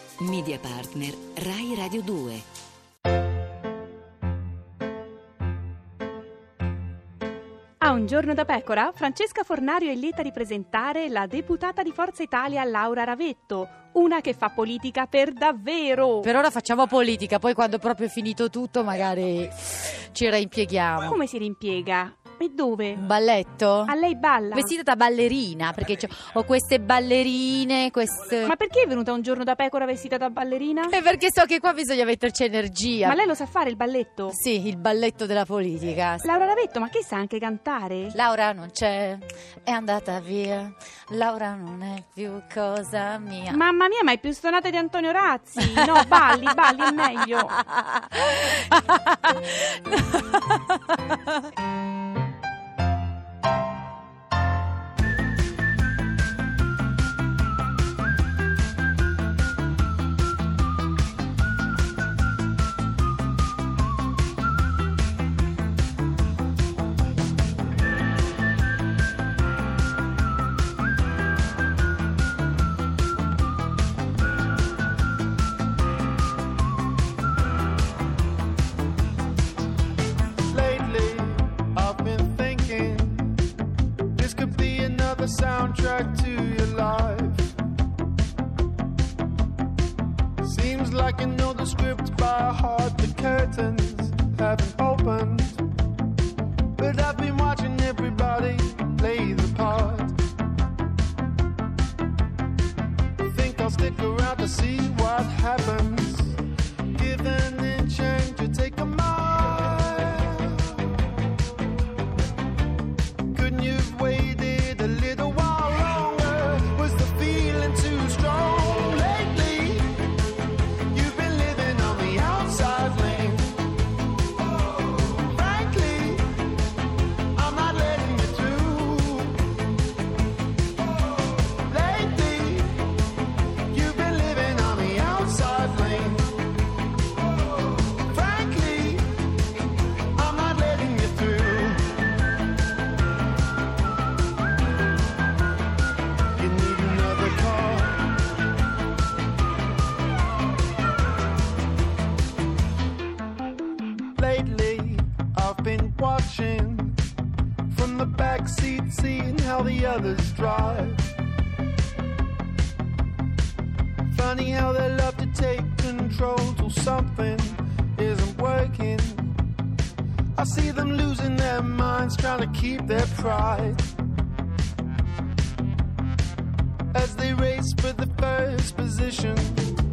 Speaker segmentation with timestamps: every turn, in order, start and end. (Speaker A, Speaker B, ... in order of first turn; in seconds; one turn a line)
Speaker A: 0.2-2.5
Speaker B: 7.8-16.3
Speaker C: 16.2-21.2
Speaker B: 21.0-23.0
Speaker C: 23.0-24.0
Speaker B: 23.9-24.7
Speaker C: 24.5-28.6
Speaker B: 28.4-31.0
Speaker C: 30.9-33.2
Speaker B: 33.0-34.4
Speaker C: 34.3-36.3
Speaker B: 36.2-38.2
Speaker C: 38.1-43.6
Speaker B: 43.5-47.5
Speaker C: 45.6-51.0
Speaker D: 80.5-83.5
Speaker D: 84.1-87.5
Speaker D: 90.4-95.7
Speaker D: 96.8-100.2
Speaker D: 103.2-106.4
Speaker D: 106.9-111.0
Speaker D: 113.3-119.9
Speaker D: 120.9-123.5
Speaker D: 125.3-126.3
Speaker D: 127.3-129.5
Speaker D: 131.7-132.8
Speaker D: 133.7-136.3
Speaker D: 138.1-139.1
Speaker D: 140.1-142.0
Speaker D: 146.4-148.1
Speaker D: 154.2-157.0
Speaker D: 157.7-161.0
Speaker D: 164.1-169.3
Speaker D: 170.4-173.9
Speaker D: 176.9-179.7